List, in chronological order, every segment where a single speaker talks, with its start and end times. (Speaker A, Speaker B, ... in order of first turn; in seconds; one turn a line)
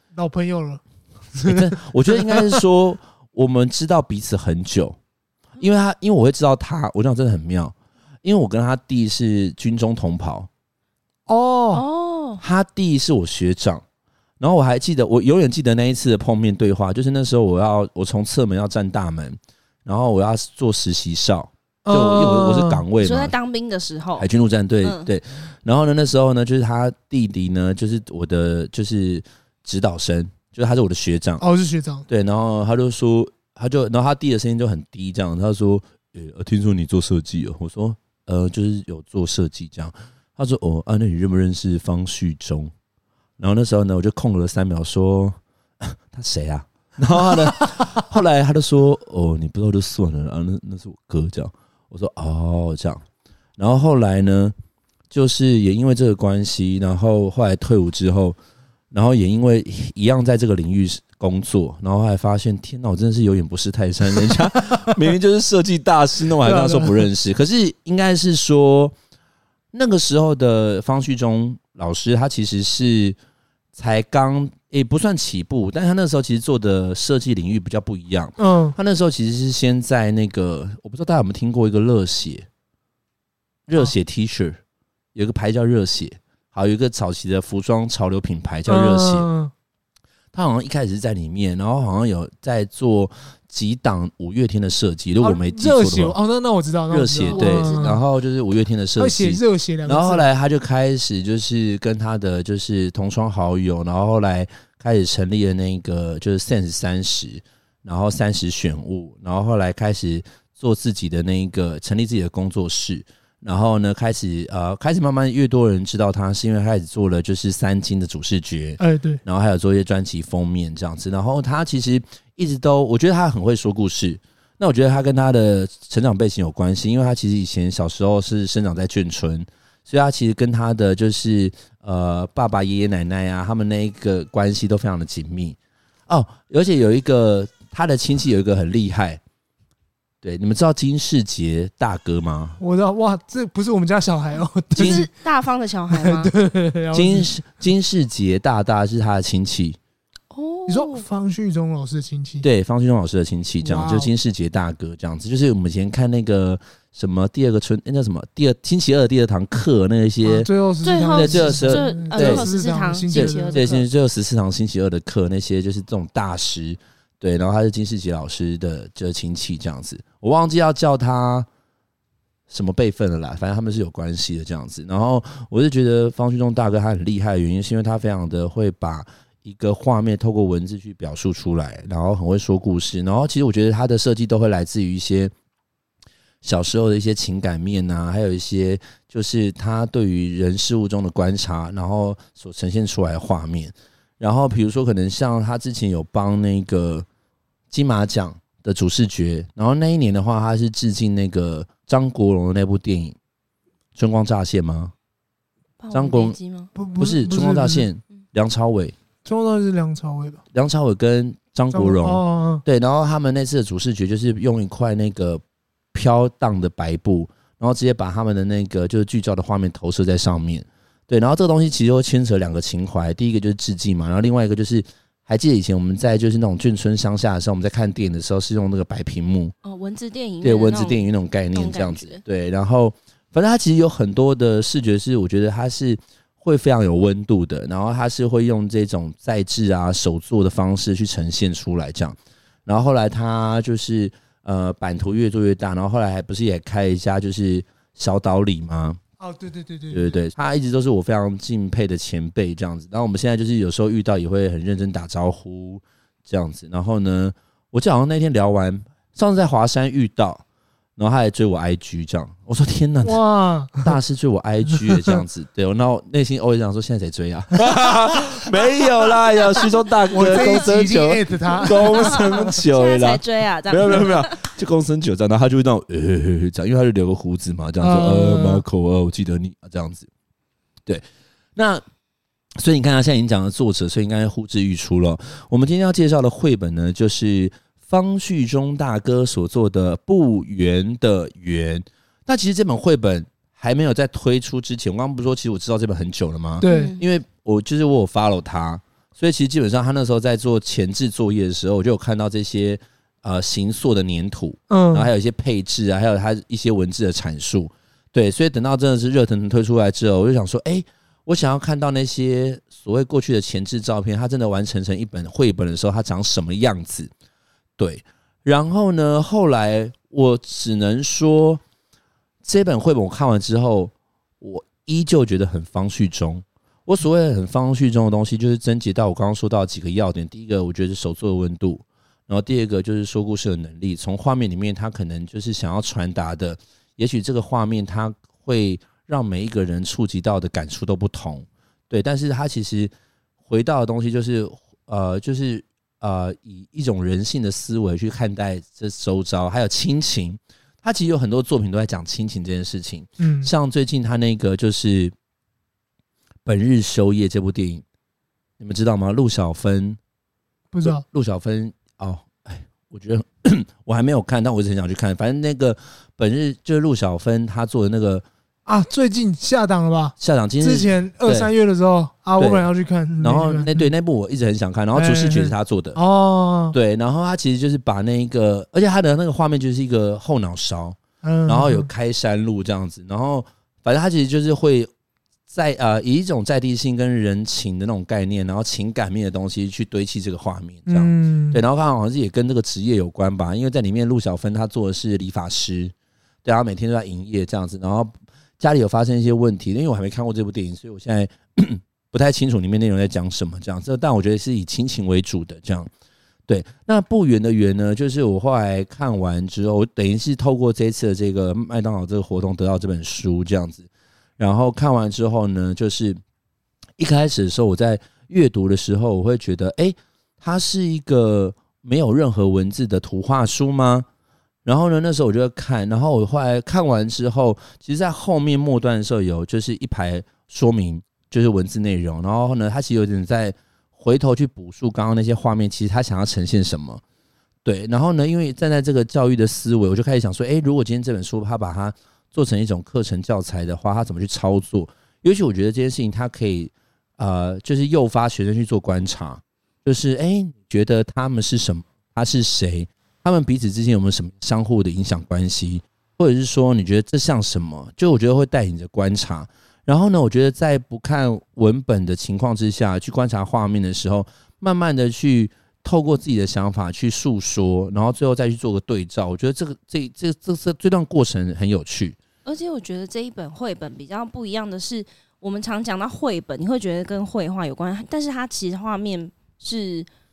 Speaker A: 0.1-0.8
Speaker A: 1.3-2.6
Speaker B: 1.4-5.0
Speaker B: 5.6-10.5
Speaker A: 11.3-11.8
Speaker C: 11.7-12.4
Speaker B: 12.4-13.8
Speaker B: 14.4-23.3
Speaker A: 21.9-22.8
Speaker C: 23.0-24.3
Speaker B: 24.2-31.4
Speaker C: 24.8-25.1
Speaker A: 31.4-32.0
Speaker B: 32.1-42.7
Speaker B: 43.4-53.0
Speaker B: 53.6-54.5
Speaker B: 55.1-58.4
Speaker B: 58.9-68.9
Speaker A: 64.6-65.0
Speaker A: 66.4-67.1
Speaker B: 69.7-73.2
Speaker B: 73.7-82.5
Speaker A: 78.4-78.8
Speaker B: 83.7-84.6
Speaker B: 85.1-89.3
Speaker A: 88.7-89.5
Speaker B: 90.3-96.2
Speaker A: 95.2-98.0
Speaker B: 96.9-135.6
Speaker C: 97.3-98.0
Speaker A: 99.0-100.2
Speaker A: 118.8-119.2
Speaker B: 136.1-139.2
Speaker B: 140.2-142.6
Speaker A: 142.6-145.1
Speaker B: 144.8-145.1
Speaker C: 144.8-146.3
Speaker A: 145.9-147.3
Speaker B: 146.9-149.8
Speaker C: 150.3-151.0
Speaker A: 150.7-152.4
Speaker B: 152.4-160.5
Speaker A: 153.6-154.1
Speaker A: 160.2-163.7
Speaker C: 160.8-163.8
Speaker B: 161.1-162.5
Speaker B: 163.1-171.5
Speaker B: 172.5-185.3
Speaker B: 186.4-197.1
Speaker B: 197.7-203.2
Speaker B: 203.9-204.9
Speaker C: 205.8-206.7
Speaker B: 205.9-206.3
Speaker A: 206.8-207.9
Speaker B: 207.0-208.9
Speaker A: 209.2-210.4
Speaker B: 210.5-215.4
Speaker A: 211.7-212.6
Speaker B: 215.9-229.5
Speaker C: 229.6-232.2
Speaker B: 230.4-249.0
Speaker A: 249.2-250.2
Speaker B: 249.9-260.4
Speaker B: 261.0-263.2
Speaker A: 263.0-263.9
Speaker B: 263.8-280.1
Speaker A: 264.9-265.1
Speaker C: 269.3-270.6
Speaker A: 270.1-272.6
Speaker C: 271.7-274.4
Speaker A: 277.8-278.6
Speaker B: 281.6-281.8
Speaker B: 282.6-317.1
Speaker A: 296.6-296.9
Speaker C: 296.6-297.0
Speaker A: 304.7-305.1
Speaker B: 317.8-321.6
Speaker B: 322.4-342.9
Speaker B: 343.4-355.1
Speaker A: 353.2-353.5
Speaker B: 356.4-357.8
Speaker B: 358.6-360.0
Speaker A: 360.7-361.0
Speaker B: 360.8-368.2
Speaker A: 368.6-373.9
Speaker B: 370.2-371.5
Speaker B: 372.4-372.7
Speaker B: 373.2-376.0
Speaker A: 374.9-376.8
Speaker B: 376.7-384.9
Speaker A: 381.2-381.9
Speaker B: 385.5-395.9
Speaker A: 390.9-391.6
Speaker B: 396.4-405.9
Speaker B: 406.5-416.2
Speaker B: 417.0-424.1
Speaker B: 424.6-437.0
Speaker B: 437.6-472.2
Speaker C: 472.4-480.1